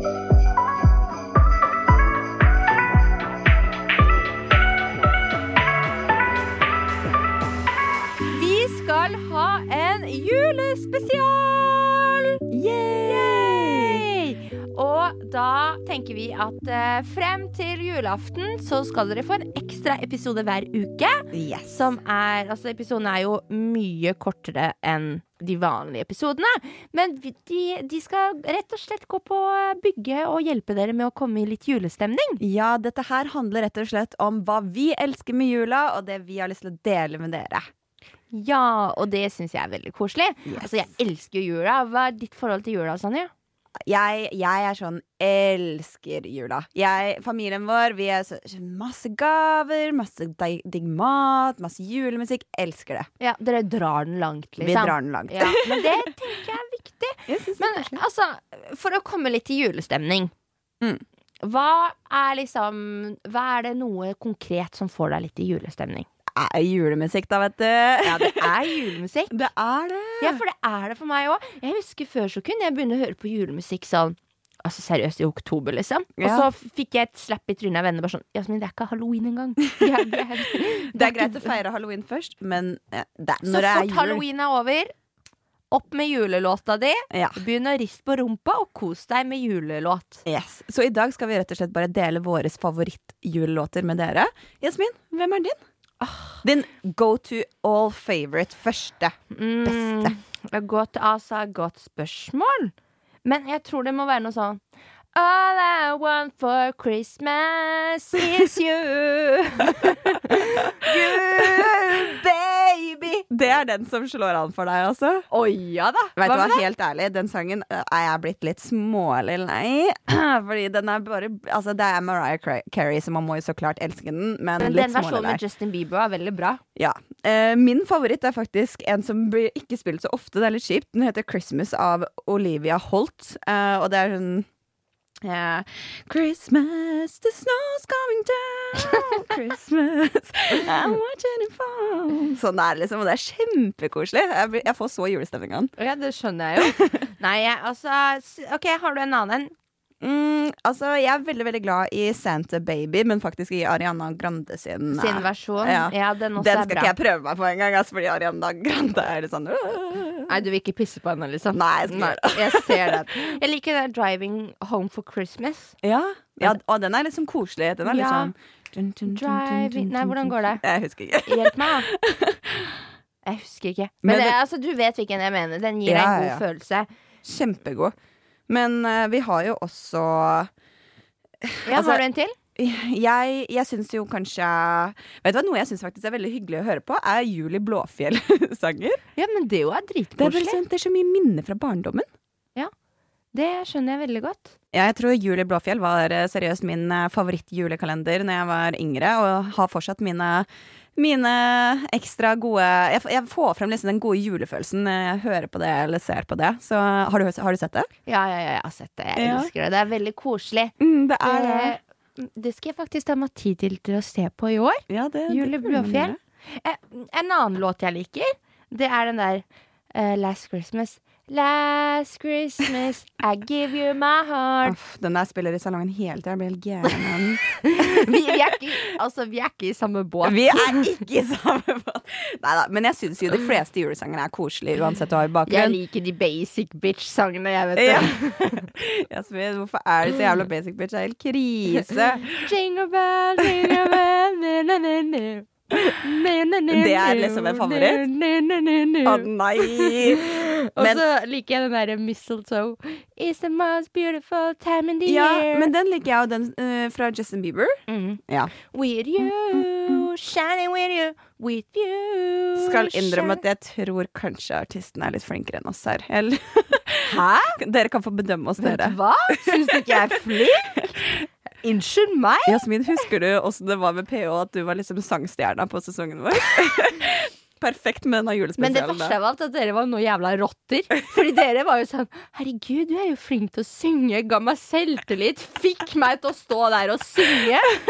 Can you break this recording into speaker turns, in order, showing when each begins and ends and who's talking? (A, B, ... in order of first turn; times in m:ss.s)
0:08.3-0:12.4 A
0:12.5-0:14.0 B
0:13.0-0:32.4 A
0:21.3-0:21.9 B
0:32.4-0:37.6 B
0:38.3-0:43.3 A
0:40.4-0:40.8 B
0:43.9-0:53.1 B
0:53.2-1:00.3 A
0:54.6-0:55.9 B
0:57.3-0:58.0 B
1:01.4-1:06.1 A
1:06.4-1:08.6 B
1:08.0-1:09.4 A
1:09.3-1:10.4 B
1:10.2-1:21.5 A
1:16.2-1:16.5 B
1:20.9-1:24.2 B
1:23.4-1:24.9 A
1:25.7-1:30.2 A
1:27.1-1:27.4 B
1:30.2-1:35.6 B
1:36.0-1:36.4 A
1:36.4-1:40.1 B
1:39.3-1:42.7 A
1:43.2-1:44.6 A
1:45.1-1:53.2 A
1:50.8-1:52.1 B
1:53.3-1:55.2 B
1:55.3-1:56.6 A
1:56.2-2:05.4 B
2:04.6-2:06.6 A
2:06.8-2:14.4 B
2:15.2-2:25.7 B
2:25.8-2:29.5 A
2:26.6-2:26.9 B
2:30.0-2:40.3 B
2:34.9-2:36.9 A
2:40.3-2:45.7 A
2:41.5-2:43.2 B
2:45.8-2:52.7 B
2:47.8-2:48.3 A
2:49.1-2:50.6 A
2:51.2-2:51.9 A
2:53.2-2:56.9 A
2:54.0-2:54.4 B
2:55.8-2:56.4 B
2:57.2-2:57.9 B
2:58.5-3:00.5 B
3:01.4-3:02.0 B
3:01.6-3:02.3 A
3:02.6-3:09.0 B
3:09.2-3:10.6 A
3:10.2-3:12.0 B
3:13.3-3:14.5 A
3:14.7-3:27.9 B
3:28.0-3:44.8 A
3:29.2-3:29.5 B
3:30.8-3:31.8 B
3:34.9-3:36.1 B
3:44.6-3:48.1 B
3:47.4-3:50.9 A
3:50.2-3:55.8 B
3:55.4-3:58.7 A
3:57.7-4:02.5 B
4:02.4-4:15.7 A
4:03.4-4:04.0 B
4:06.7-4:08.1 B
4:09.0-4:11.0 B
4:15.0-4:17.7 B
4:17.9-4:23.4 A
4:22.6-4:31.1 B
4:27.0-4:27.6 A
4:28.6-4:30.9 A
4:31.6-4:32.6 A
4:32.4-4:39.2 B
4:38.6-4:47.7 A